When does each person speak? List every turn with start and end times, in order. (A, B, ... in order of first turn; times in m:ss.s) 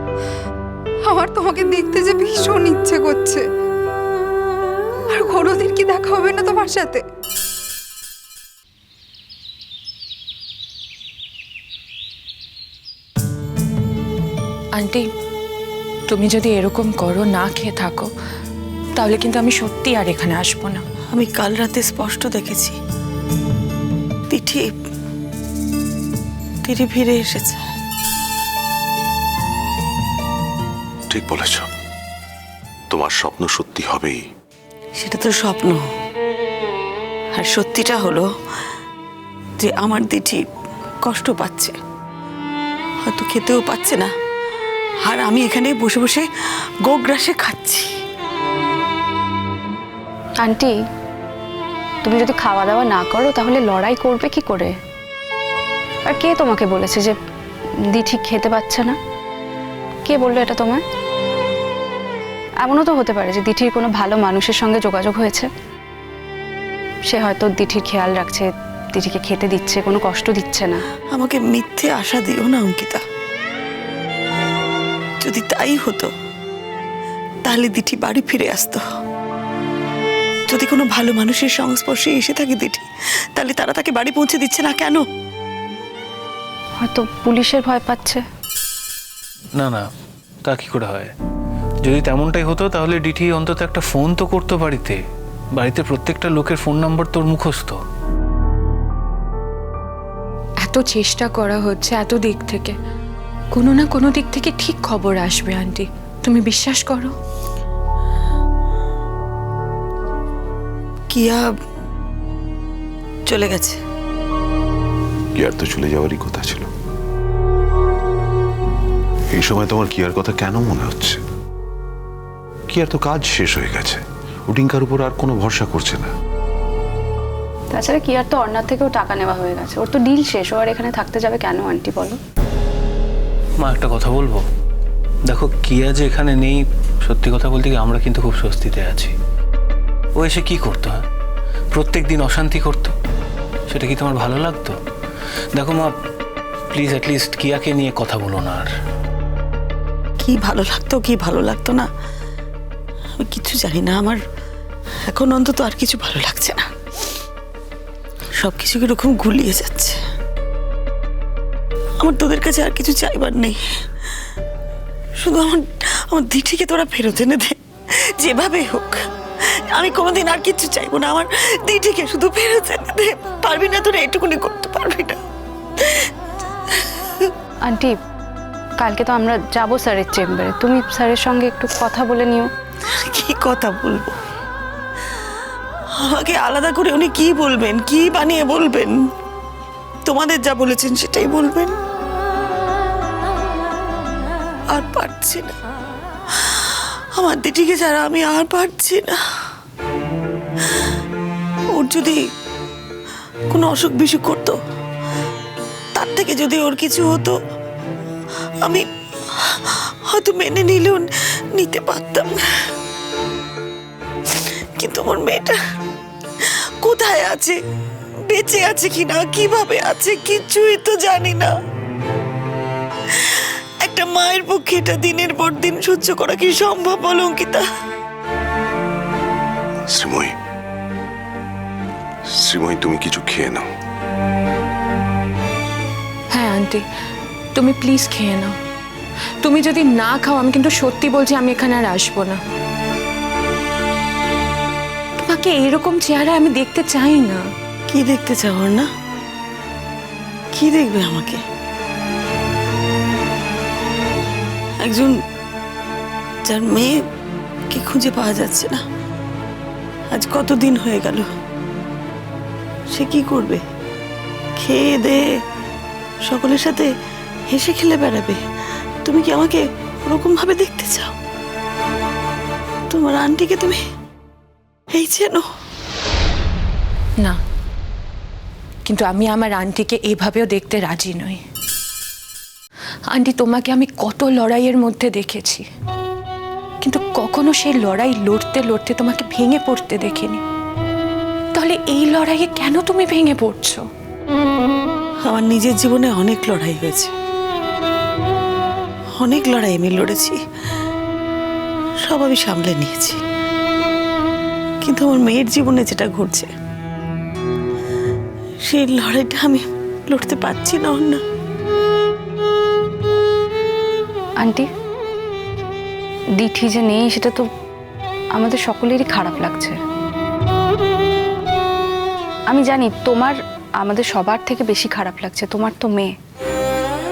0:01.0-0:03.4 A
0:05.1-0:07.0 A
0:14.8-0:15.0 B
0:16.1-0:18.1 B
0:19.0-0:20.8 B
0:21.1-0:22.8 C
0:24.3-0:24.7 C
0:26.6-0:27.6 C
0:31.1-0:31.7 D
0:32.9-0:34.2 D
0:35.0-0:35.8 C
0:37.3-0:38.2 C
0:39.6-0:40.4 C
0:41.0-0:41.7 C
0:43.0-0:44.1 C
0:45.0-0:46.2 C
0:46.8-0:47.9 C
0:50.4-0:50.7 E
0:52.0-0:54.7 E
0:56.0-0:57.1 E
0:57.9-0:59.0 E
1:00.0-1:00.8 E
1:02.6-1:05.5 E
1:07.1-1:10.8 E
1:11.1-1:13.0 C
1:15.2-1:16.1 C
1:17.4-1:18.8 C
1:20.5-1:25.0 C
1:26.8-1:28.2 E
1:29.6-1:29.8 F
1:30.4-1:31.1 F
1:31.8-1:35.0 F
1:35.5-1:37.8 F
1:40.6-1:42.7 B
1:43.5-1:47.1 B
1:51.1-1:51.4 C
1:53.3-1:53.8 C
1:55.4-1:56.7 D
1:59.3-2:01.2 D
2:02.7-2:06.1 D
2:07.7-2:12.2 E
2:13.6-2:14.4 F
2:15.3-2:19.1 F
2:20.2-2:21.0 F
2:21.7-2:22.9 F
2:23.7-2:24.7 F
2:25.5-2:25.9 F
2:26.7-2:28.7 F
2:30.2-2:31.9 C
2:33.2-2:34.2 C
2:35.1-2:36.6 C
2:38.4-2:40.0 C
2:42.0-2:43.6 C
2:45.2-2:47.6 C
2:48.2-2:49.0 C
2:49.7-2:55.2 C
2:57.6-2:58.0 E
2:58.8-3:02.5 E
3:03.0-3:04.1 C
3:06.0-3:09.0 C
3:10.0-3:11.8 C
3:14.7-3:15.5 C
3:16.4-3:19.2 C
3:21.7-3:22.2 C
3:23.5-3:24.6 C
3:25.9-3:27.3 C
3:29.4-3:32.4 C
3:34.3-3:35.6 C
3:36.8-3:37.6 C
3:38.3-3:41.5 C
3:43.2-3:47.6 C
3:49.9-3:50.3 D
3:52.4-3:53.7 D
3:56.3-3:56.8 B
3:57.5-3:58.5 B
3:59.4-4:02.4 B
4:05.2-4:07.4 B
4:07.9-4:08.9 C
4:10.5-4:11.4 C
4:14.8-4:15.1 C
4:16.4-4:16.9 C
4:17.7-4:18.8 C
4:20.1-4:21.3 C
4:22.9-4:23.6 C
4:24.6-4:25.2 C
4:26.2-4:26.9 C
4:27.5-4:28.4 C
4:29.0-4:31.1 C
4:32.9-4:33.8 C
4:34.9-4:35.4 C
4:38.8-4:41.4 B
4:43.1-4:45.6 B
4:46.8-4:50.4 B
4:51.5-4:53.8 B
4:55.2-4:57.1 C
4:59.2-5:00.4 C
5:02.0-5:03.2 C
5:04.8-5:06.5 C
5:08.6-5:11.2 C
5:14.4-5:14.6 E
5:16.4-5:17.4 E
5:18.4-5:19.8 E
5:22.5-5:26.1 E